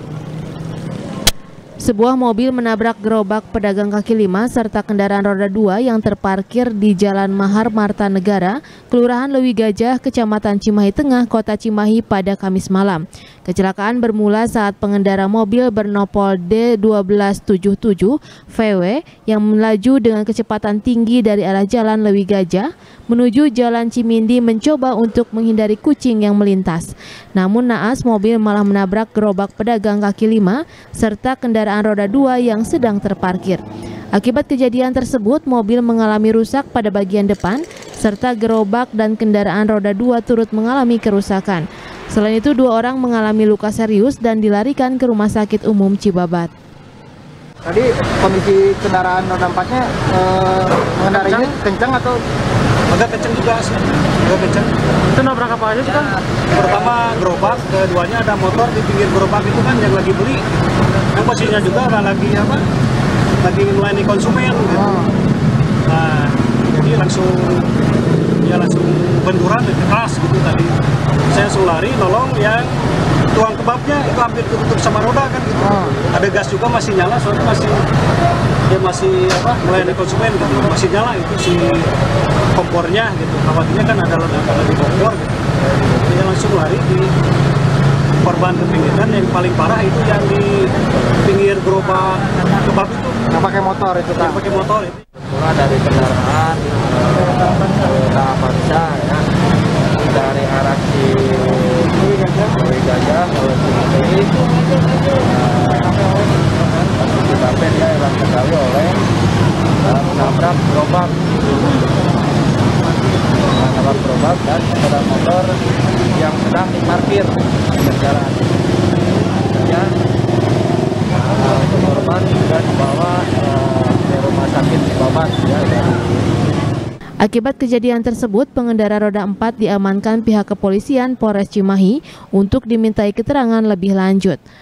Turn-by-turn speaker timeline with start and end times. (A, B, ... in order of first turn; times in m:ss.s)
0:01.8-0:33.6 A
0:34.2-0:46.5 A
0:47.6-0:52.2 B
0:52.9-1:00.4 C
1:01.1-1:02.6 C
1:03.4-1:05.0 C
1:05.9-1:07.7 C
1:08.4-1:10.8 C
1:11.3-1:12.8 C
1:13.3-1:17.8 C
1:15.6-1:16.0 B
1:18.7-1:21.9 C
1:22.5-1:25.4 C
1:26.0-1:27.1 C
1:28.2-1:33.2 C
1:33.3-1:34.4 B
1:34.2-1:35.0 C
1:35.2-1:39.2 D
1:40.0-1:44.4 D
1:45.0-1:49.0 D
1:49.8-1:51.2 D
1:53.6-1:55.6 D
1:56.2-1:58.5 D
1:59.6-1:59.9 D
2:01.2-2:06.2 D
2:07.2-2:14.4 A